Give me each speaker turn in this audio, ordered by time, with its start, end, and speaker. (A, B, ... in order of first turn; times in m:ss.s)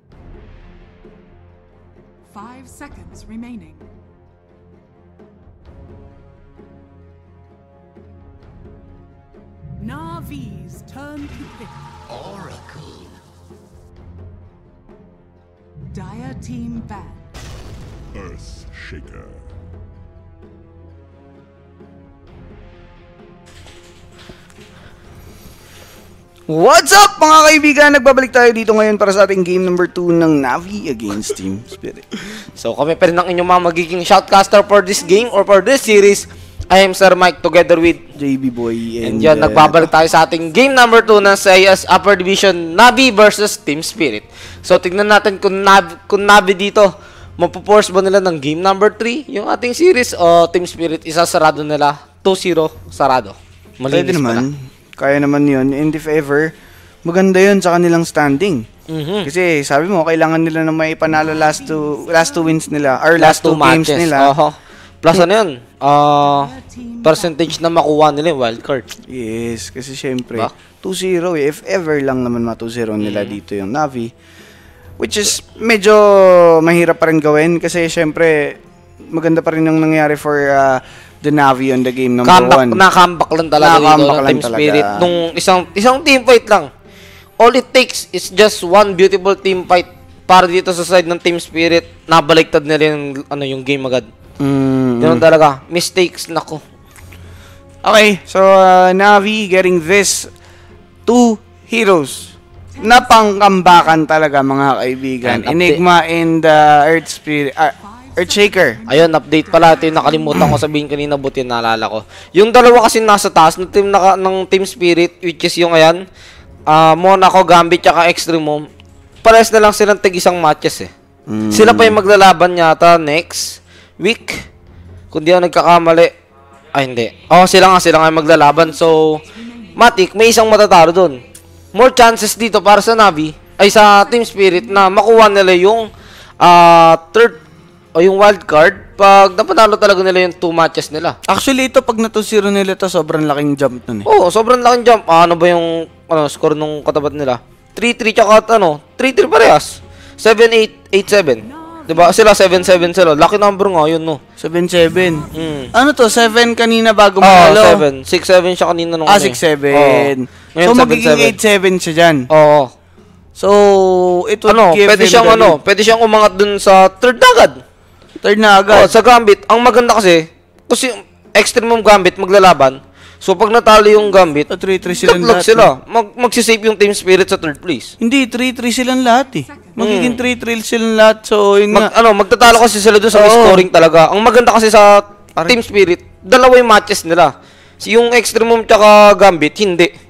0:02.3-0:03.9 A
0:09.8-0:13.0 A
0:15.9-0:17.3 A
0:26.5-0:32.1 B
0:32.6-0:38.0 C
0:38.2-0:39.9 B
0:39.0-0:54.4 C
0:53.9-0:56.5 B
0:57.0-0:58.6 B
0:58.9-0:59.3 C
0:59.2-1:04.3 B
1:01.3-1:02.8 A
1:03.2-1:06.5 C
1:06.1-1:07.6 A
1:07.0-1:08.9 C
1:09.1-1:14.1 B
1:13.0-1:13.4 C
1:15.0-1:18.6 B
1:19.1-1:22.8 B
1:22.2-1:26.7 C
1:23.6-1:25.1 B
1:27.4-1:34.1 C
1:34.4-1:35.2 B
1:35.0-1:36.6 C
1:37.8-1:40.3 B
1:41.0-1:48.8 B
1:42.7-1:44.0 A
1:45.2-1:45.8 C
1:47.8-1:50.6 A
1:48.9-1:56.0 C
1:56.7-1:58.6 C
1:59.2-2:00.9 C
2:01.3-2:02.0 B
2:01.5-2:04.4 C
2:05.1-2:06.1 C
2:06.7-2:09.2 C
2:09.3-2:09.7 A
2:09.8-2:11.2 C
2:11.7-2:15.9 C
2:16.4-2:17.4 C
2:18.0-2:21.2 C
2:21.2-2:24.1 B
2:24.0-2:34.2 C
2:31.6-2:32.9 A
2:34.4-2:37.8 B
2:35.3-2:35.7 C
2:37.2-2:41.4 C
2:39.1-2:42.3 B
2:42.3-2:42.7 C
2:43.4-2:45.6 B
2:44.5-2:47.6 C
2:48.2-2:48.9 B
2:48.7-2:54.5 C
2:54.5-2:55.7 B
2:55.0-2:57.9 C
2:58.0-3:01.9 B
2:59.4-3:00.0 A
2:59.8-3:00.2 C
3:01.7-3:09.9 C
3:03.1-3:03.7 B